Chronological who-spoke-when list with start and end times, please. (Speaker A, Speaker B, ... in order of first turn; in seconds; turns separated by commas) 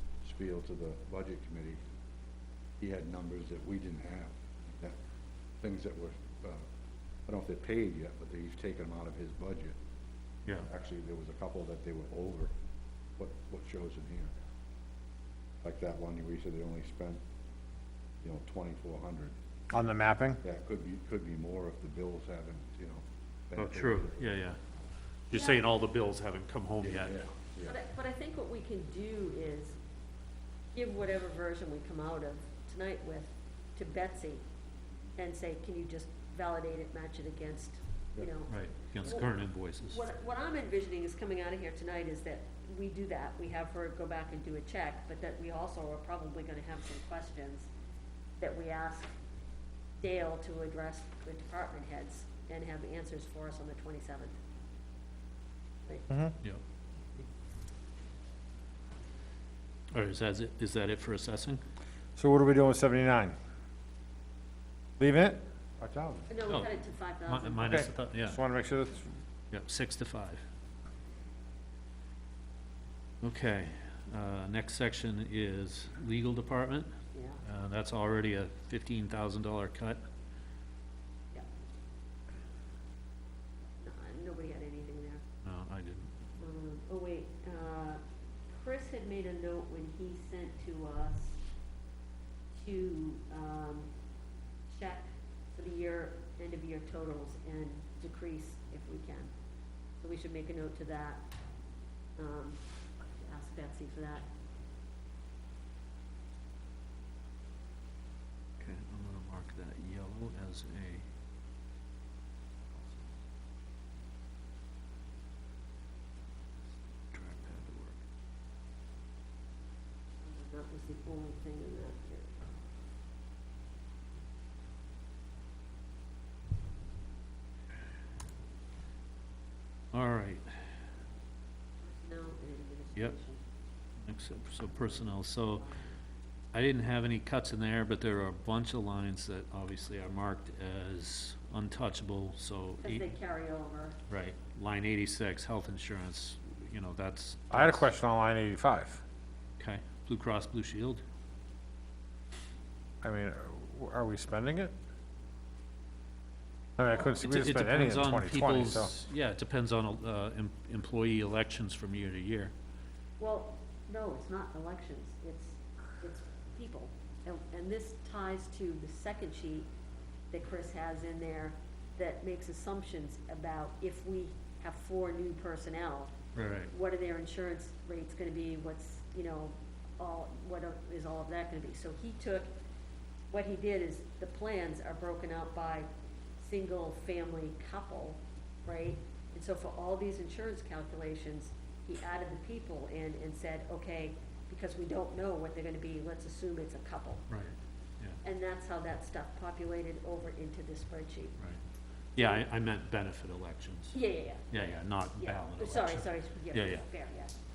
Speaker A: 0.2-1.8, Speaker A: 2.8-5.0, Speaker A: 5.6-6.7, Speaker A: 7.3-9.8, Speaker A: 10.5-12.5, Speaker A: 13.2-14.4, Speaker A: 15.6-17.2, Speaker A: 18.2-19.3, Speaker B: 19.7-20.4, Speaker A: 20.4-24.6, Speaker C: 23.6-24.6, Speaker C: 25.3-27.3, Speaker D: 25.3-25.7, Speaker A: 26.8-27.8, Speaker D: 27.6-29.8, Speaker D: 30.7-34.4, Speaker D: 35.2-39.3, Speaker C: 38.5-40.0, Speaker D: 39.8-47.7, Speaker D: 48.4-49.1, Speaker D: 50.0-54.3, Speaker B: 56.1-56.3, Speaker C: 59.9-61.6, Speaker B: 62.1-63.4, Speaker B: 65.0-65.4, Speaker A: 65.8-66.3, Speaker D: 66.3-67.8, Speaker C: 66.5-68.4, Speaker B: 67.7-69.1, Speaker C: 69.5-70.4, Speaker C: 73.2-76.9, Speaker D: 77.1-77.4, Speaker C: 77.4-80.0, Speaker D: 83.7-85.2, Speaker C: 85.4-86.1, Speaker D: 86.4-91.4, Speaker D: 92.5-93.9, Speaker D: 94.7-99.3, Speaker D: 100.0-101.2, Speaker D: 102.2-102.6, Speaker D: 103.1-104.3, Speaker C: 108.6-111.0, Speaker C: 112.7-113.1, Speaker C: 117.1-118.0, Speaker D: 120.2-122.5, Speaker C: 129.9-130.5, Speaker D: 131.8-133.4, Speaker C: 134.0-135.6, Speaker D: 134.8-136.0, Speaker C: 136.5-143.1, Speaker D: 142.8-144.0, Speaker C: 144.1-147.8, Speaker B: 147.5-149.0, Speaker C: 149.6-151.0, Speaker B: 153.0-154.7, Speaker B: 156.8-158.9, Speaker C: 157.0-162.5, Speaker D: 163.2-169.7, Speaker D: 170.3-176.1, Speaker C: 176.3-176.7, Speaker D: 176.7-182.5, Speaker D: 183.3-185.9, Speaker D: 186.4-197.3, Speaker C: 197.3-198.2, Speaker D: 198.2-201.4, Speaker C: 202.1-206.8, Speaker D: 202.2-202.4, Speaker D: 203.9-204.5, Speaker D: 205.2-207.3